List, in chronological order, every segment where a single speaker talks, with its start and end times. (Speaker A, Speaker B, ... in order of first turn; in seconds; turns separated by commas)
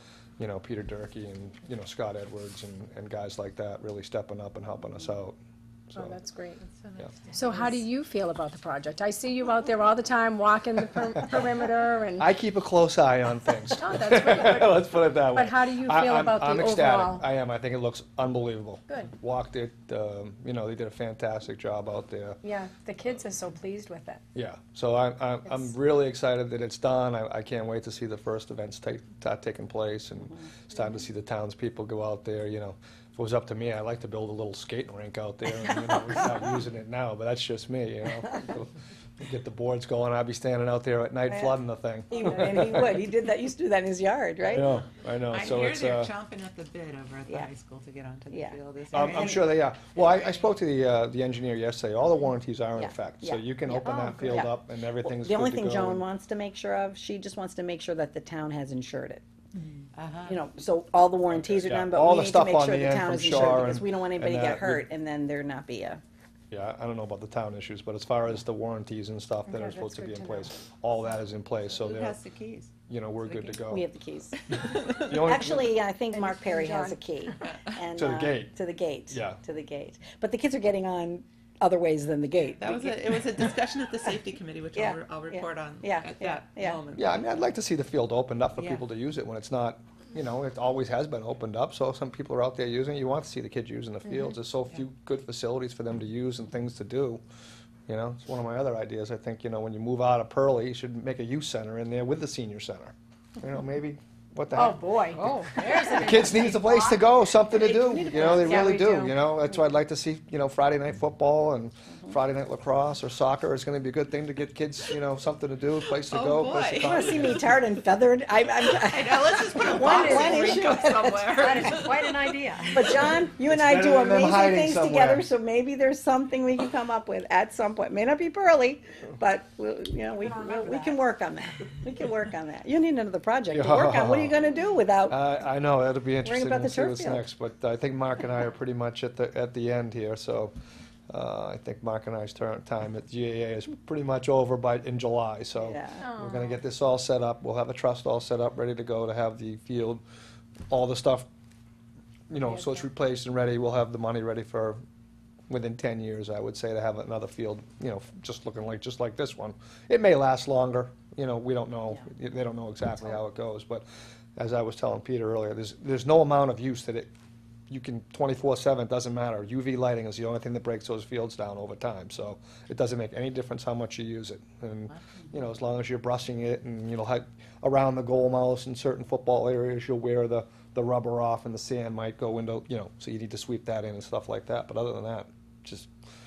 Speaker A: 0.4-5.4, Speaker B: 5.9-6.6, Speaker C: 6.7-7.8, Speaker B: 7.3-12.3, Speaker A: 12.2-22.4, Speaker B: 13.7-17.3, Speaker B: 22.4-24.2, Speaker A: 24.3-42.8, Speaker D: 41.3-41.6, Speaker D: 42.1-44.8, Speaker A: 44.5-46.1, Speaker C: 45.3-49.8, Speaker D: 48.3-49.5, Speaker A: 48.9-56.0, Speaker D: 52.8-59.2, Speaker B: 53.9-54.4, Speaker C: 59.9-60.4, Speaker D: 60.3-66.0, Speaker A: 61.3-64.8, Speaker A: 66.5-72.2, Speaker B: 69.5-70.5, Speaker C: 71.8-72.7, Speaker A: 72.9-73.8, Speaker C: 73.2-73.6, Speaker D: 73.7-83.4, Speaker C: 74.5-75.1, Speaker A: 74.9-75.7, Speaker B: 76.1-77.0, Speaker A: 78.0-78.5, Speaker A: 79.1-79.4, Speaker C: 82.5-87.3, Speaker D: 84.7-86.8, Speaker A: 87.0-97.2, Speaker A: 97.9-117.5, Speaker B: 104.5-107.1, Speaker D: 107.5-108.8, Speaker B: 108.2-109.2, Speaker C: 116.1-117.3, Speaker D: 116.8-121.8, Speaker C: 118.7-122.4, Speaker B: 119.8-120.4, Speaker B: 121.4-122.8, Speaker D: 122.7-135.2, Speaker A: 123.4-125.2, Speaker B: 130.2-131.0, Speaker A: 133.5-134.4, Speaker A: 135.1-140.5, Speaker D: 136.2-137.3, Speaker A: 141.1-150.0, Speaker D: 145.6-146.1, Speaker B: 146.0-146.6, Speaker A: 150.7-151.3, Speaker A: 152.3-154.8, Speaker A: 155.5-163.8, Speaker A: 164.4-167.1, Speaker A: 167.7-185.9